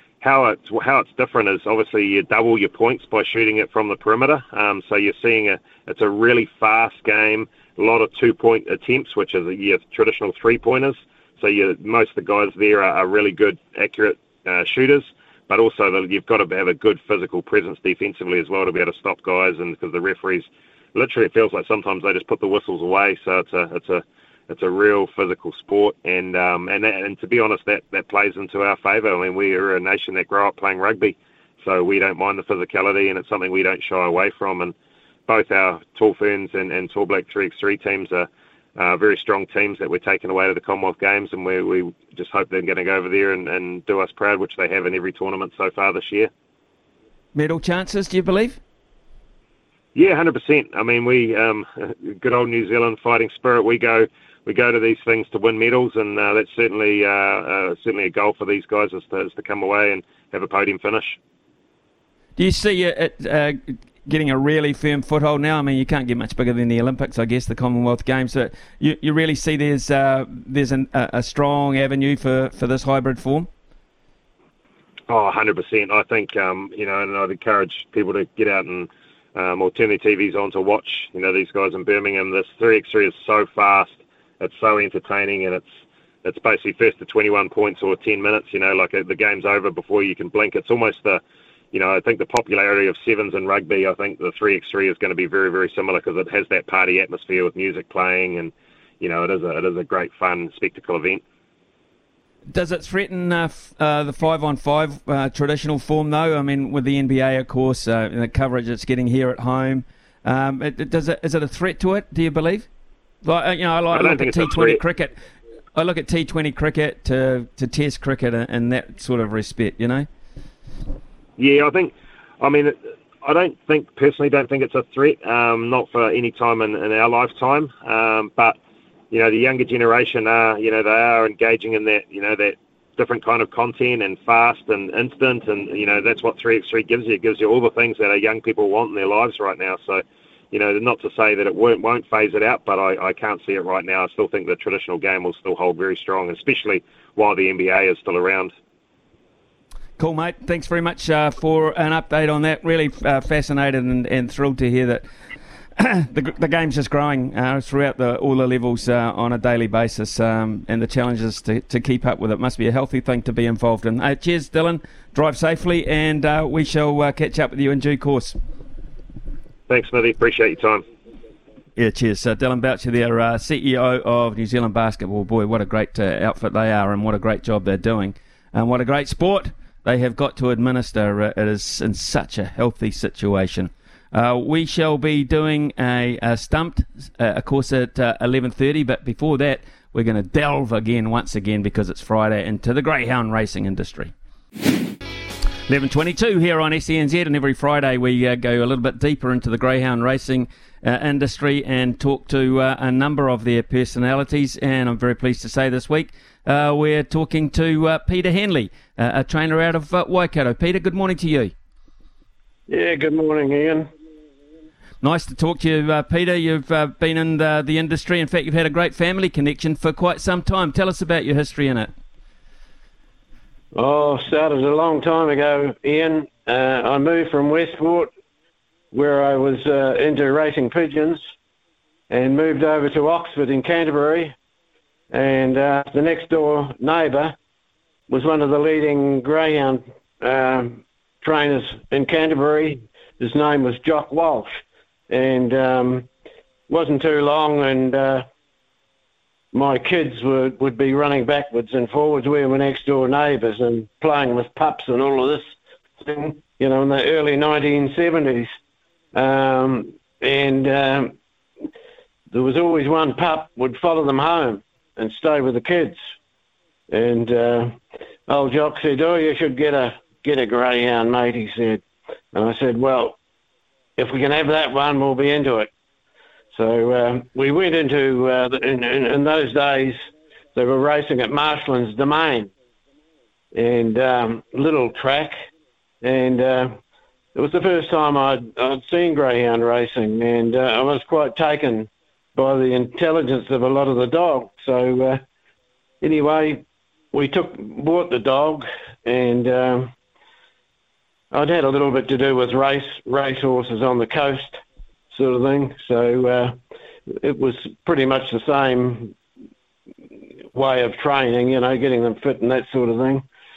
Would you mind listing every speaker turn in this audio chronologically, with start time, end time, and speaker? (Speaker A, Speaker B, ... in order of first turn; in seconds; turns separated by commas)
Speaker A: 0.2-34.7, Speaker A: 35.3-46.3, Speaker B: 47.3-48.6, Speaker A: 49.9-61.2, Speaker B: 62.4-73.5, Speaker A: 75.1-101.2, Speaker B: 102.5-112.7, Speaker B: 113.2-115.1, Speaker A: 113.9-114.8, Speaker B: 115.8-120.1, Speaker A: 121.4-128.6, Speaker A: 129.1-148.5, Speaker B: 150.0-155.0, Speaker B: 155.8-168.4, Speaker A: 169.7-170.8, Speaker B: 171.8-194.1, Speaker B: 195.7-211.5, Speaker C: 212.7-213.9, Speaker B: 215.0-221.9, Speaker C: 223.7-228.1, Speaker C: 228.9-231.2, Speaker C: 232.1-234.3, Speaker C: 235.1-237.3, Speaker C: 238.1-246.1, Speaker C: 246.7-248.2, Speaker C: 249.5-258.6, Speaker C: 259.1-261.1, Speaker C: 262.3-266.0, Speaker C: 266.9-273.2, Speaker C: 274.0-275.7, Speaker C: 276.5-282.5, Speaker C: 283.5-285.4, Speaker C: 286.0-286.8, Speaker C: 287.3-295.2, Speaker C: 296.0-299.9, Speaker C: 301.3-306.6, Speaker C: 307.1-309.1, Speaker C: 310.5-313.2